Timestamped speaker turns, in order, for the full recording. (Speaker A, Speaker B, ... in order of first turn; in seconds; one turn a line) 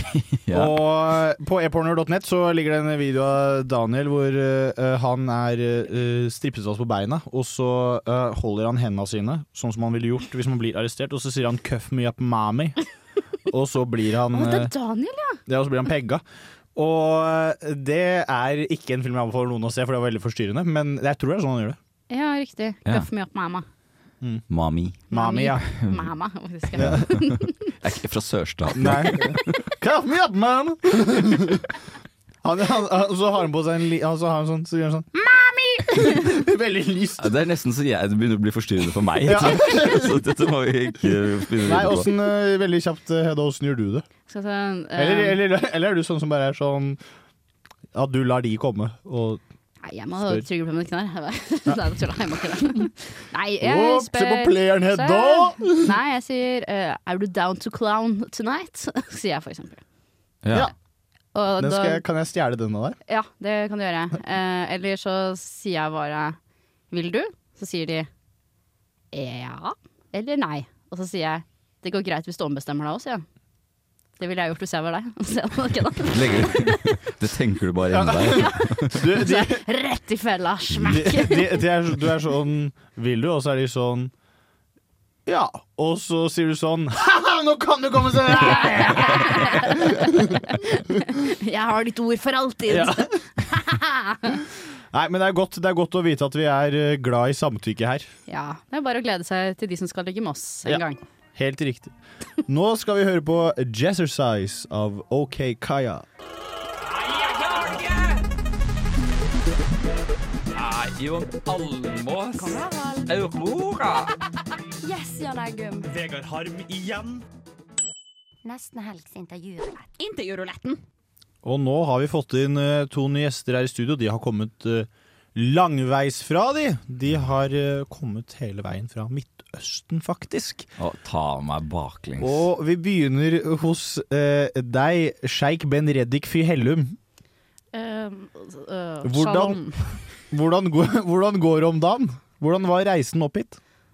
Speaker A: 0.4-0.8
Speaker B: 0.5-12.8
Speaker B: 13.5-14.7
Speaker C: 14.3-15.4
Speaker B: 15.5-16.2
Speaker B: 16.8-21.8
Speaker C: 22.1-23.7
Speaker A: 24.5-25.1
Speaker B: 25.1-25.7
Speaker C: 25.1-27.5
Speaker A: 25.7-26.1
Speaker A: 26.8-29.5
Speaker B: 26.8-27.1
Speaker B: 28.7-31.7
Speaker B: 32.4-37.3
Speaker C: 35.5-36.2
Speaker A: 37.2-42.1
Speaker B: 39.2-40.2
Speaker B: 41.6-44.0
Speaker C: 44.3-45.4
Speaker B: 45.0-47.0
Speaker B: 47.9-49.4
Speaker C: 49.8-59.8
Speaker B: 53.6-55.9
Speaker A: 60.4-60.7
Speaker C: 61.4-62.0
Speaker B: 61.6-63.0
Speaker C: 63.1-66.4
Speaker C: 66.9-68.1
Speaker C: 69.1-73.3
Speaker C: 74.2-76.8
Speaker A: 76.1-79.0
Speaker B: 77.9-79.6
Speaker C: 78.3-81.6
Speaker B: 80.8-84.1
Speaker B: 85.3-90.4
Speaker C: 88.3-94.4
Speaker B: 92.7-93.1
Speaker B: 94.9-98.1
Speaker C: 98.3-101.0
Speaker B: 101.3-101.9
Speaker B: 102.5-106.1
Speaker D: 107.0-108.1
Speaker D: 110.6-112.2
Speaker D: 113.1-114.1
Speaker E: 114.8-115.7
Speaker D: 115.8-117.2
Speaker E: 118.5-119.7
Speaker B: 121.4-130.7
Speaker A: 130.8-132.4
Speaker B: 132.2-137.0
Speaker C: 137.7-140.0
Speaker B: 139.0-139.6
Speaker B: 140.3-143.6